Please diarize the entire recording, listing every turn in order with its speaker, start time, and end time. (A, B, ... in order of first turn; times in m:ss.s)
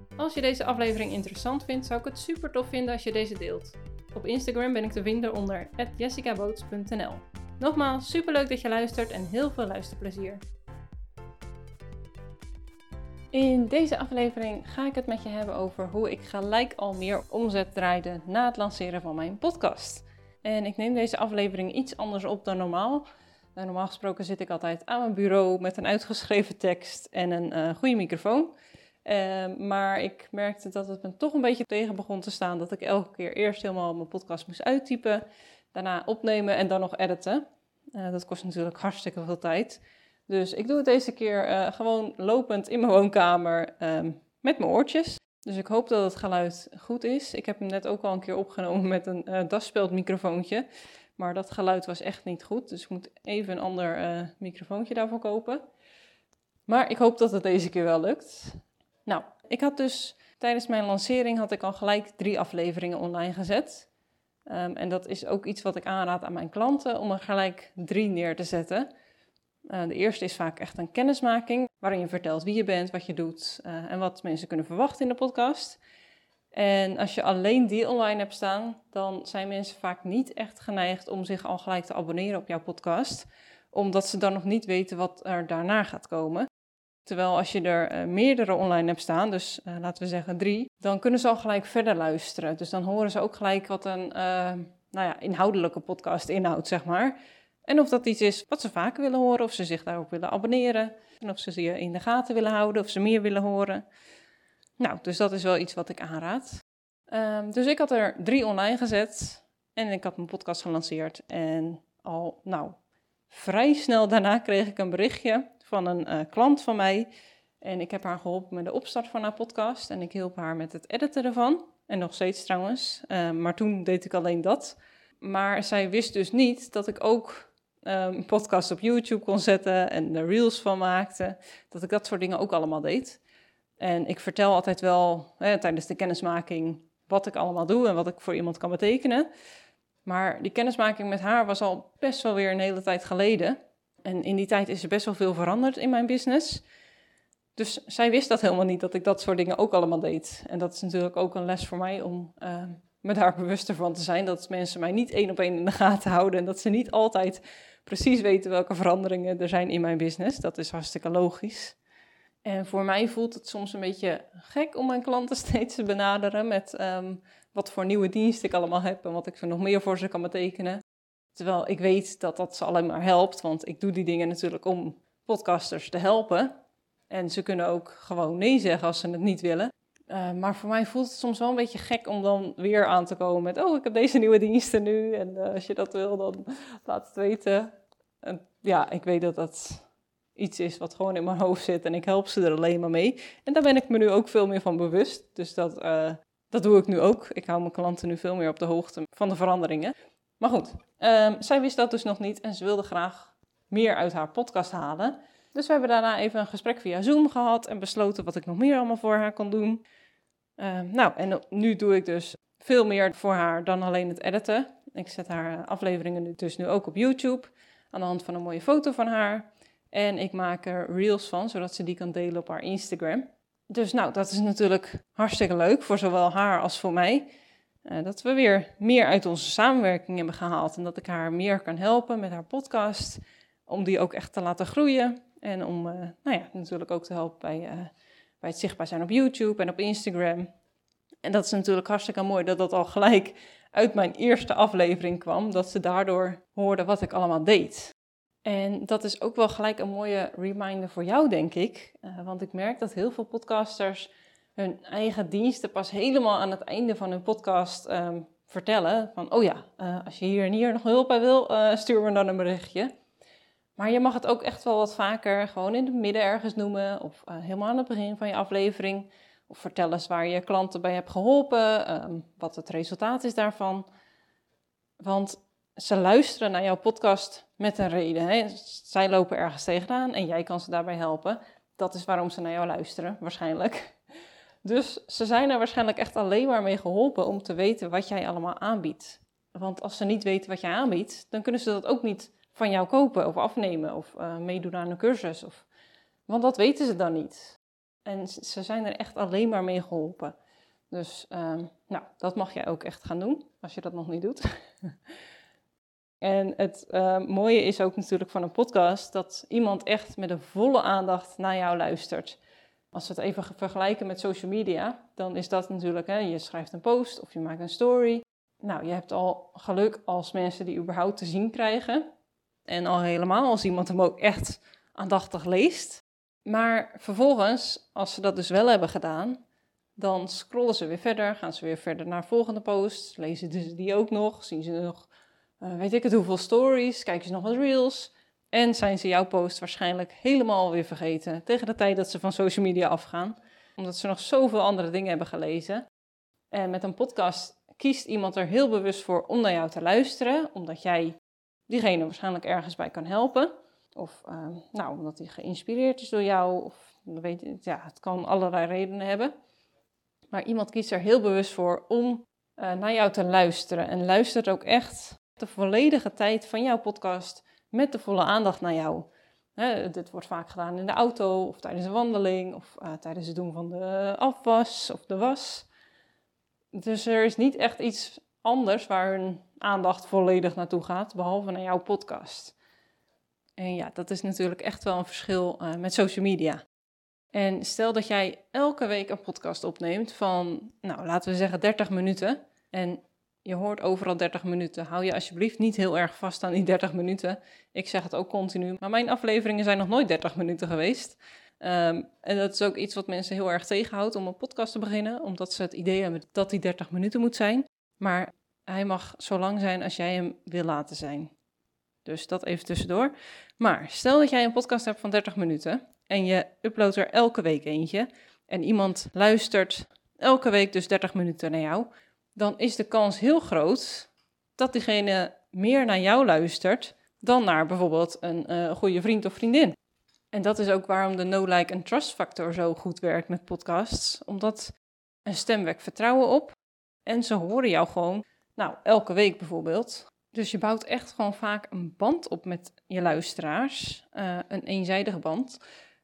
0:00.2-0:10.4 A
0:13.3-0:55.6 A
0:56.7-1:03.9 A
1:04.5-1:08.9 A
1:09.7-1:15.8 A
1:16.5-1:26.5 A
1:27.0-1:43.8 A
1:44.8-1:46.6 A
1:47.1-1:52.8 A
1:53.3-1:57.1 A
1:57.6-2:13.2 A
2:13.8-2:19.3 A
2:20.0-2:26.6 A
2:27.6-2:41.8 A
2:42.4-2:50.8 A
2:51.3-2:56.5 A
2:57.1-3:29.8 A
3:30.6-3:47.3 A
3:47.8-4:00.5 A
4:01.2-4:07.9 A
4:08.4-4:22.9 A
4:23.8-4:33.8 A
4:35.0-4:44.0 A
4:44.6-4:55.7 A
4:56.3-5:00.3 A
5:00.9-5:04.9 A
5:06.2-5:12.4 A
5:12.9-5:22.0 A
5:22.6-5:29.4 A
5:30.0-5:35.1 A
5:35.6-5:45.8 A
5:46.5-5:59.3 A
6:00.3-6:15.7 A
6:16.7-6:22.6 A
6:23.6-6:26.6 A
6:27.3-6:51.3 A
6:52.0-7:09.8 A
7:10.3-7:14.7 A
7:15.2-7:25.6 A